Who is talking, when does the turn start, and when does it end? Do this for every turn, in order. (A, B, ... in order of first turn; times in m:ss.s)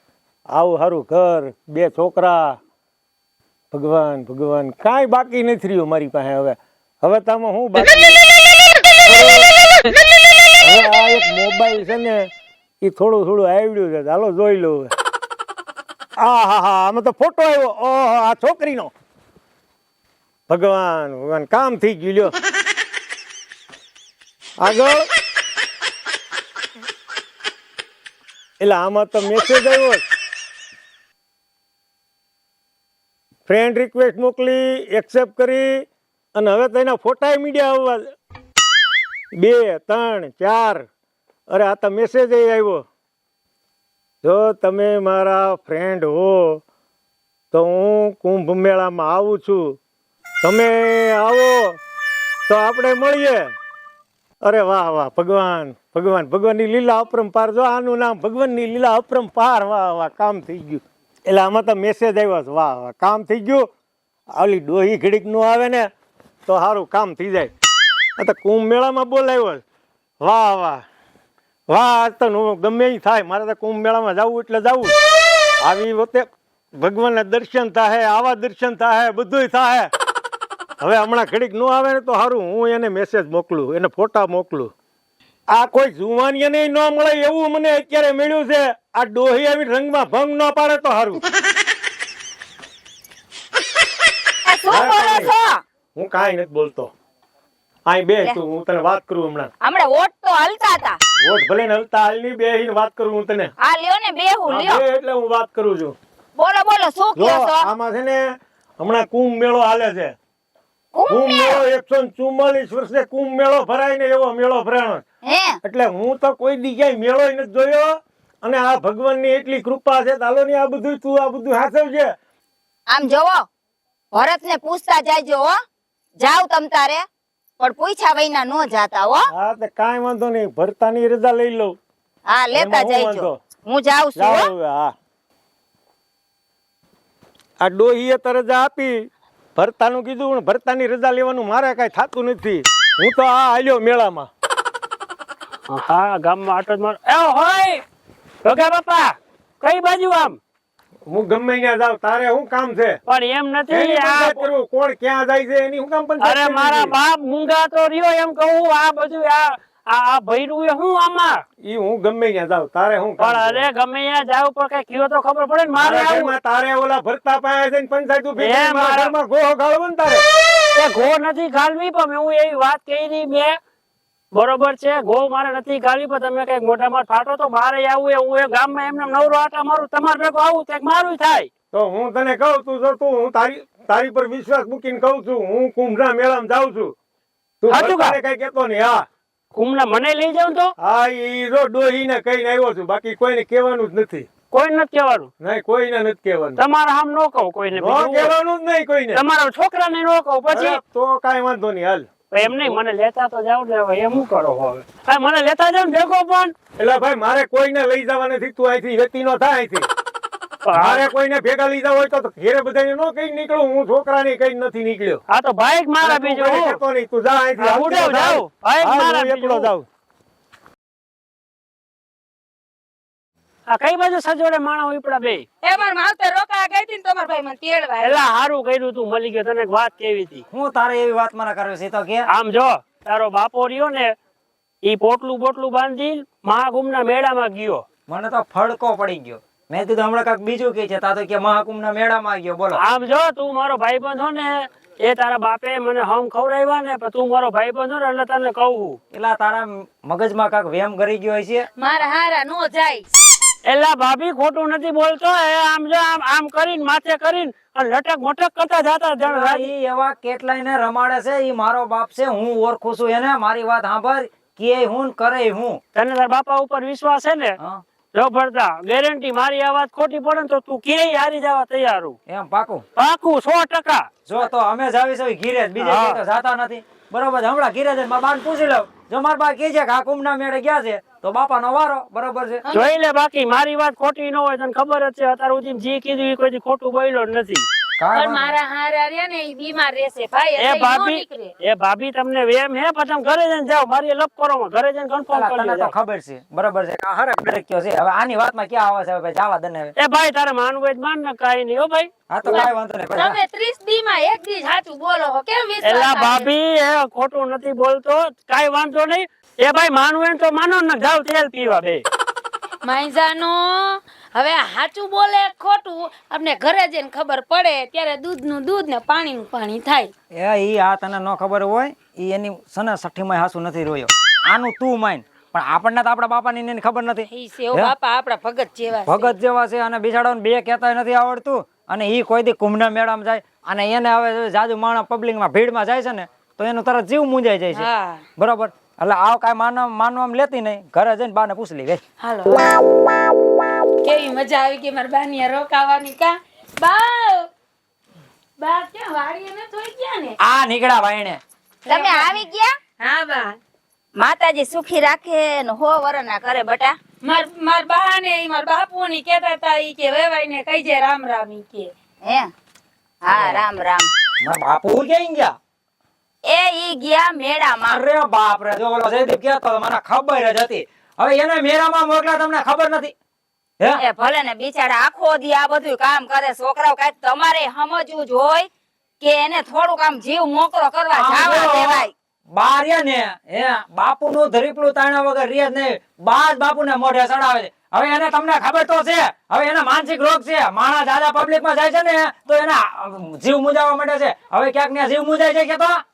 0:00.5-0:02.6 A
0:03.7-0:08.2 A
0:09.0-0:09.5 A
0:10.6-0:12.3 A
0:12.8-0:14.9 A
0:16.2-0:18.9 A
0:20.5-0:22.3 A
0:24.6-0:25.1 A
0:28.6-0:30.0 A
0:33.5-0:38.1 A
0:39.3-0:40.8 A
0:41.5-0:42.8 A
0:44.2-0:46.6 A
0:47.5-0:49.8 A
0:50.4-0:51.8 A
0:52.5-0:53.5 A
0:54.4-1:03.7 A
1:04.3-1:05.9 A
1:06.5-1:07.5 A
1:08.2-1:09.6 A
1:10.2-1:10.8 A
1:11.7-1:14.9 A
1:15.6-1:19.9 A
1:20.8-1:24.7 A
1:25.5-1:31.2 A
1:34.4-1:35.6 B
1:34.7-1:35.3 A
1:35.9-1:36.9 A
1:37.9-1:39.5 A
1:39.6-1:41.0 B
1:41.2-1:43.5 A
1:43.6-1:44.8 B
1:44.5-1:45.9 A
1:46.4-1:47.7 B
1:47.2-1:50.1 A
1:50.9-1:51.6 B
1:51.1-1:55.0 A
1:55.2-1:55.6 B
1:55.6-2:02.1 A
2:02.9-2:03.4 B
2:04.1-2:05.5 B
2:06.2-2:07.0 B
2:07.6-2:09.3 B
2:09.3-2:11.8 A
2:12.3-2:14.5 B
2:12.5-2:13.4 A
2:14.2-2:14.9 A
2:17.6-2:24.3 A
2:25.7-2:27.8 C
2:28.4-2:30.4 C
2:31.1-2:33.0 A
2:33.1-2:34.4 C
2:33.7-2:37.0 A
2:36.2-2:41.4 C
2:41.6-2:43.7 A
2:43.2-2:46.3 C
2:45.8-2:50.2 A
2:48.4-2:49.1 C
2:50.7-2:53.6 C
2:54.3-3:01.5 C
3:01.7-3:06.9 A
3:07.6-3:09.0 A
3:07.7-3:08.1 C
3:09.5-3:10.7 C
3:10.8-3:14.3 A
3:14.5-3:15.3 C
3:15.4-3:16.6 A
3:16.6-3:18.3 C
3:17.7-3:19.2 A
3:19.1-3:20.8 C
3:20.5-3:22.1 A
3:22.3-3:26.5 C
3:26.8-3:29.9 A
3:30.6-3:31.1 C
3:30.7-3:35.2 A
3:35.3-3:36.8 C
3:36.0-3:39.8 A
3:37.6-3:39.7 C
3:43.7-3:45.4 C
3:45.6-3:48.1 B
3:48.0-3:50.4 C
3:50.5-3:52.2 D
3:52.3-3:54.1 C
3:54.8-3:57.8 C
3:58.1-4:02.8 D
4:02.8-4:09.0 C
4:09.1-4:11.6 D
4:11.8-4:13.0 E
4:13.7-4:19.7 C
4:19.2-4:25.8 D
4:25.9-4:27.6 C
4:28.1-4:32.2 C
4:32.3-4:32.8 D
4:33.0-4:34.1 C
4:34.2-4:42.6 D
4:35.8-4:36.2 C
4:42.7-4:47.6 C
4:48.0-4:48.5 D
4:48.1-4:51.5 E
4:50.6-4:55.9 C
4:55.3-4:59.9 D
5:00.0-5:02.1 C
5:02.3-5:03.4 D
5:02.4-5:06.5 E
5:05.8-5:12.0 C
5:12.8-5:20.1 E
5:20.3-5:27.9 D
5:27.3-5:29.3 E
5:29.0-5:42.0 D
5:37.7-5:38.2 E
5:42.2-5:42.7 E
5:44.0-5:47.5 E
5:48.6-5:50.4 E
5:50.4-5:51.4 D
5:51.8-5:52.7 B
5:51.9-5:52.4 E
5:53.0-5:53.6 E
5:54.2-5:56.9 B
5:57.2-6:01.9 E
6:03.2-6:04.1 B
6:03.3-6:03.6 D
6:04.4-6:05.6 D
6:06.4-6:08.0 B
6:07.8-6:13.1 D
6:14.0-6:18.7 B
6:19.2-6:22.1 B
6:21.1-6:36.0 D